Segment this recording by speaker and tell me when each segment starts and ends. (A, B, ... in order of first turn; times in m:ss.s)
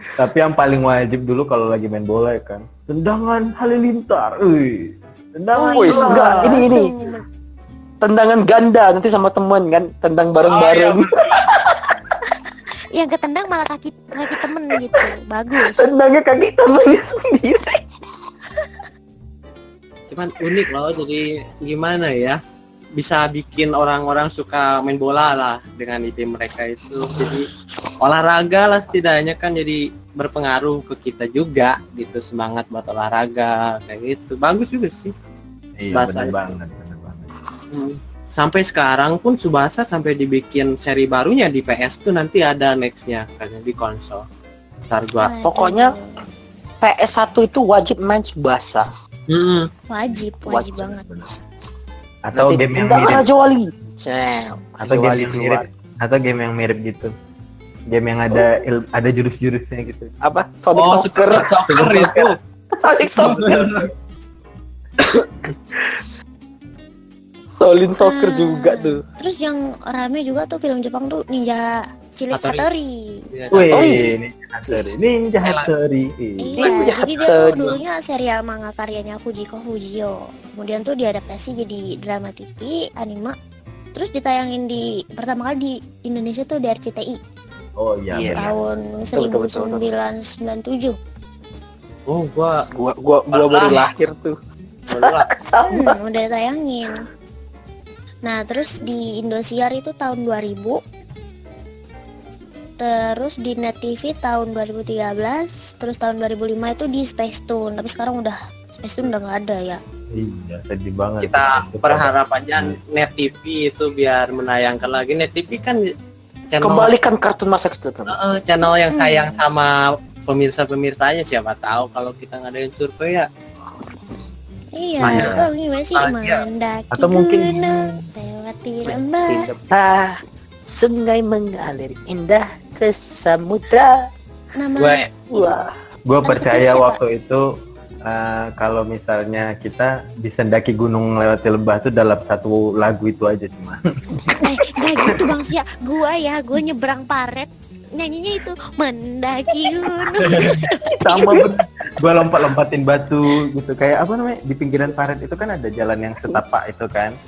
0:00.2-0:06.8 A
0:05.6-0:07.2 B
0:05.7-0:06.9 C
0:08.0-0:12.0 C
0:10.5-0:11.5 D
0:13.0-0:15.9 B
0:14.4-0:15.0 C
0:15.6-0:17.8 C
0:20.1-0:22.4 D
0:23.0-0:27.5 D
0:28.0-0:35.1 D
0:35.8-0:37.3 A
0:35.9-0:36.4 D
0:37.7-0:44.2 D
0:44.9-0:45.3 D
0:45.2-0:46.1 B
0:45.4-0:45.9 C
0:46.8-0:48.9 C
0:49.3-0:49.7 D
0:49.9-0:51.0 B
0:50.5-0:50.9 C
0:52.2-0:53.3 A
0:52.4-0:55.7 C
0:54.8-0:57.1 A
0:57.9-1:00.1 A
1:00.2-1:03.8 C
1:00.8-1:02.4 D
1:03.2-1:03.9 D
1:05.0-1:06.0 C
1:07.6-1:09.0 C
1:08.0-1:13.2 B
1:12.3-1:12.7 D
1:13.3-1:13.9 D
1:13.5-1:16.8 A
1:13.6-1:14.1 C
1:15.4-1:15.7 D
1:16.4-1:23.4 B
1:16.6-1:17.7 C
1:17.3-1:17.7 D
1:24.0-1:27.2 B
1:27.8-1:29.1 A
1:28.1-1:28.5 C
1:28.4-1:31.0 B
1:29.2-1:29.9 C
1:32.1-1:32.6 D
1:32.7-1:34.4 C
1:33.3-1:33.9 D
1:34.9-1:35.3 D
1:34.9-1:36.0 C
1:35.7-1:37.0 B
1:38.2-1:40.8 B
1:42.8-1:49.8 B
1:50.1-1:52.8 A
1:51.2-1:55.8 D
1:56.5-1:57.0 D
1:56.6-1:58.2 C
1:58.1-1:59.7 D
1:58.9-1:59.4 B
2:00.3-2:03.3 D
2:04.8-2:09.4 B
2:05.0-2:05.5 A
2:05.0-2:05.4 D
2:06.0-2:06.4 D
2:06.9-2:08.0 A
2:08.9-2:10.2 C
2:10.7-2:13.9 C
2:14.6-2:15.6 B
2:14.8-2:15.1 D
2:15.3-2:15.7 C
2:16.1-2:17.4 A
2:16.2-2:17.0 B
2:18.1-2:23.8 A
2:24.4-2:31.3 B
2:25.0-2:25.2 A
2:30.2-2:37.2 A